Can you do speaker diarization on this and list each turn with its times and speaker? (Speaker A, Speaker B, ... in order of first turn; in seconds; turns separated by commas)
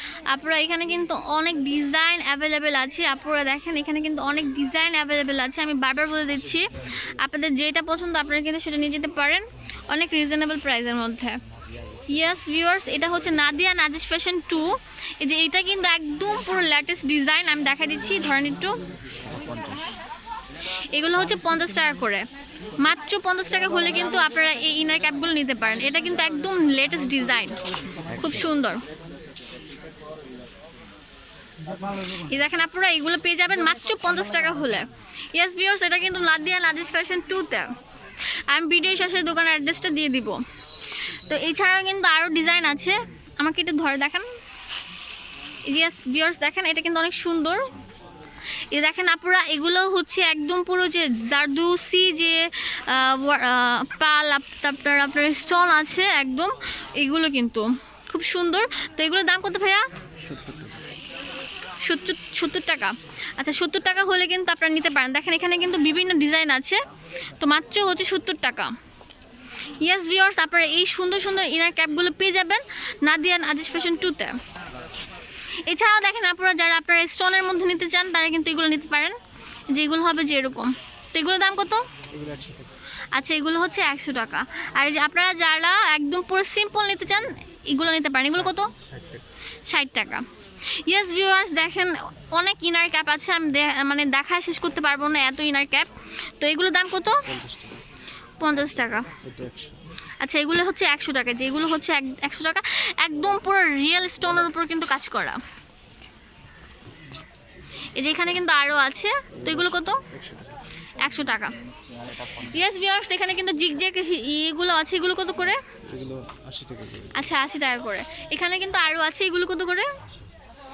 Speaker A: 0.3-11.4, Speaker A: 12.1-18.8, Speaker B: 19.3-19.8, Speaker A: 20.9-22.2, Speaker A: 22.8-27.6, Speaker A: 28.1-28.8, Speaker A: 32.1-37.7, Speaker A: 38.5-40.4, Speaker A: 41.1-44.3, Speaker A: 45.7-47.7, Speaker A: 48.7-59.9, Speaker B: 60.2-60.8, Speaker A: 61.8-66.8, Speaker A: 67.4-68.7, Speaker A: 69.8-74.4, Speaker A: 75.7-79.2, Speaker A: 79.7-81.8, Speaker B: 82.2-82.6, Speaker A: 83.1-88.7, Speaker A: 89.7-97.3, Speaker B: 97.3-97.8, Speaker A: 98.4-99.1, Speaker B: 99.2-99.8, Speaker A: 100.2-105.4, Speaker A: 108.0-110.0, Speaker B: 109.4-110.6, Speaker A: 111.0-111.5, Speaker A: 112.3-115.6, Speaker B: 115.9-117.1, Speaker A: 117.1-119.9